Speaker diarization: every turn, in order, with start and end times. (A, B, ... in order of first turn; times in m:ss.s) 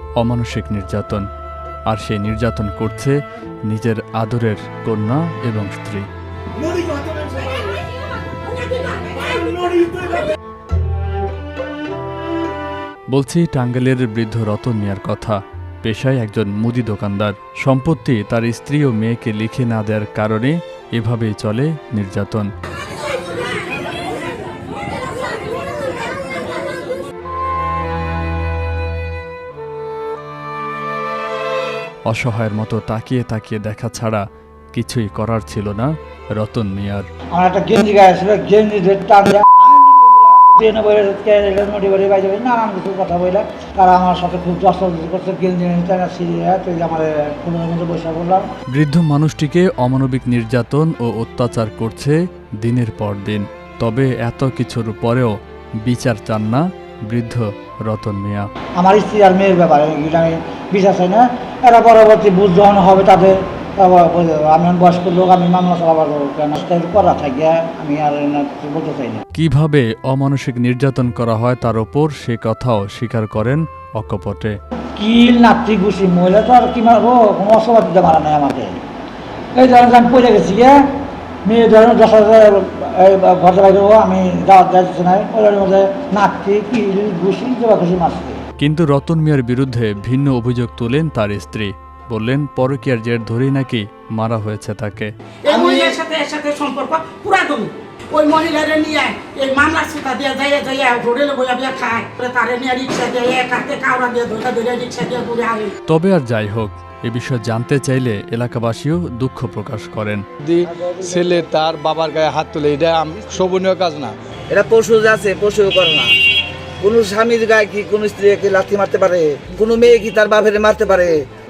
0:00.2-0:01.2 A
0:01.9-0:03.2 A
0:03.7-0:06.1 A
0:09.1-0:10.0 B
0:13.1-0:22.5 A
0:32.1-0:37.0 A
0:37.3-0:48.5 C
0:48.7-0:55.3 A
0:55.8-0:58.5 A
0:58.8-1:09.2 C
1:09.4-1:14.5 A
1:15.0-1:18.8 C
1:19.6-1:20.8 C
1:21.4-1:28.4 C
1:28.6-1:35.1 A
1:35.4-1:45.7 B
1:35.5-1:35.9 D
1:45.9-1:50.2 A
1:50.4-1:54.2 E
1:54.5-1:56.1 D
1:56.8-2:01.2 D